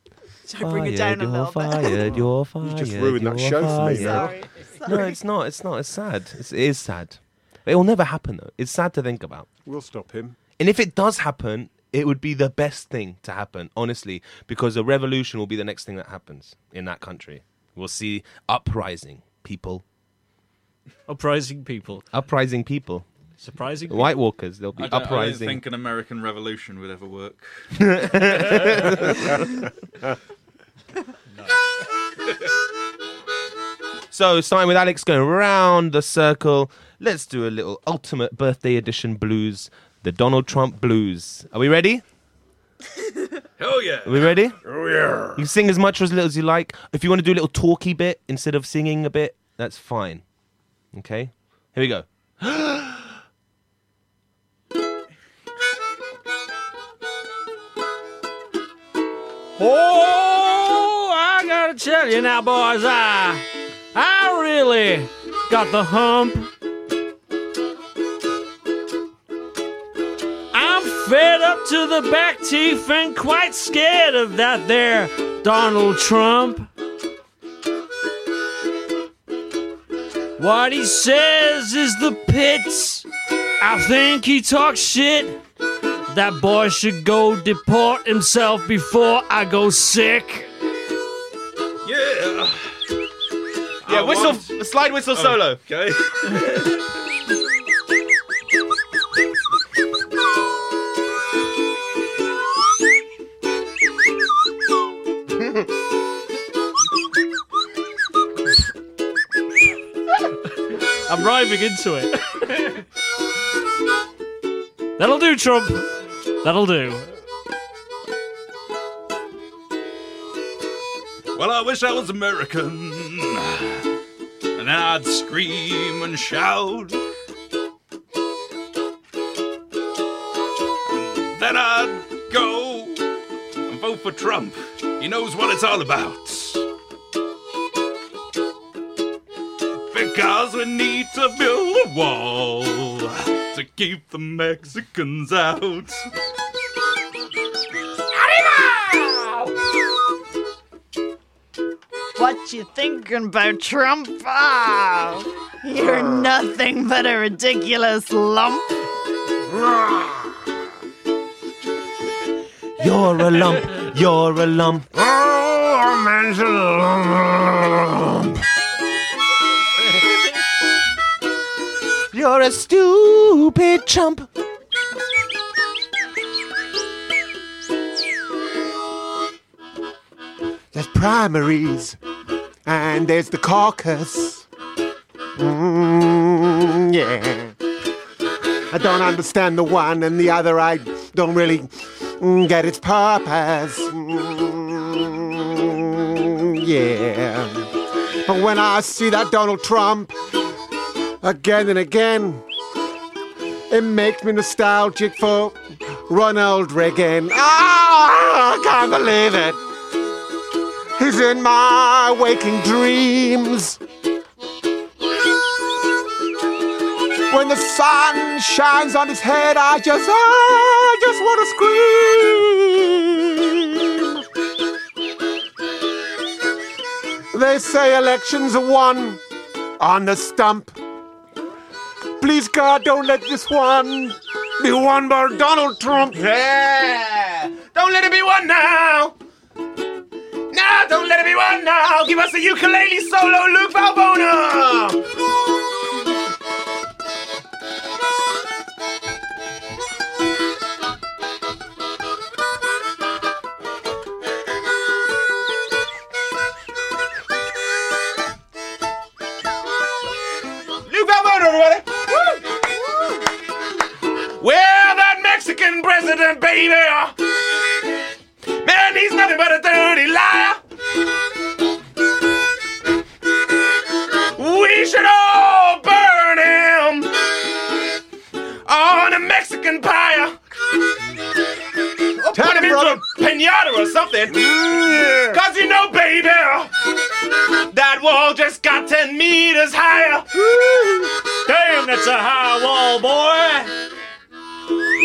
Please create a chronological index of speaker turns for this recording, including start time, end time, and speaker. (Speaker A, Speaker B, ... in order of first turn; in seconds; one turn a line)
Speaker A: 0.5-2.1
Speaker B: 0.6-9.5
Speaker C: 2.0-4.4
Speaker A: 3.7-5.2
Speaker C: 9.7-10.4
Speaker B: 10.6-19.8
Speaker D: 21.1-22.1
Speaker B: 22.1-23.1
Speaker D: 23.4-24.1
Speaker B: 23.9-25.6
Speaker E: 24.8-29.3
Speaker B: 27.8-29.5
Speaker B: 34.1-42.0
Speaker E: 43.6-45.4
Speaker B: 44.0-44.6
Speaker B: 45.4-50.2
Speaker B: 50.9-53.1
Speaker D: 59.6-66.5
Speaker D: 70.5-76.7
Speaker D: 80.4-83.1
Speaker D: 83.6-85.4
Speaker D: 86.1-90.5
Speaker E: 91.8-92.7
Speaker E: 93.8-94.6
Speaker B: 93.9-95.6
Speaker E: 95.1-96.8
Speaker D: 110.7-112.8
Speaker D: 115.0-117.2
Speaker E: 121.3-123.9
Speaker E: 124.6-127.0
Speaker E: 130.9-133.1
Speaker E: 133.6-136.7
Speaker E: 139.9-146.1
Speaker A: 152.2-158.8
Speaker C: 155.8-156.3
Speaker C: 159.4-160.5
Speaker B: 162.8-164.9
Speaker C: 164.9-168.4
Speaker B: 172.1-174.3
Speaker C: 180.7-182.0
Speaker C: 182.7-184.4
Speaker C: 185.4-187.6
Speaker C: 188.7-200.2
Speaker C: 201.2-202.4
Speaker C: 203.7-209.6
Speaker C: 211.0-213.8
Speaker C: 217.3-224.2
Speaker C: 227.3-229.2
Speaker C: 229.8-230.8
Speaker C: 232.2-236.2
Speaker B: 236.1-239.2
Speaker B: 240.5-245.1
Speaker B: 260.9-262.1
Speaker A: 262.3-263.2
Speaker B: 264.4-267.2
Speaker B: 268.5-270.6
Speaker B: 274.3-277.5
Speaker B: 278.6-280.4
Speaker B: 282.0-286.7
Speaker C: 282.3-283.1
Speaker C: 284.3-285.4
Speaker B: 287.6-290.5
Speaker C: 290.4-291.1
Speaker D: 291.5-293.7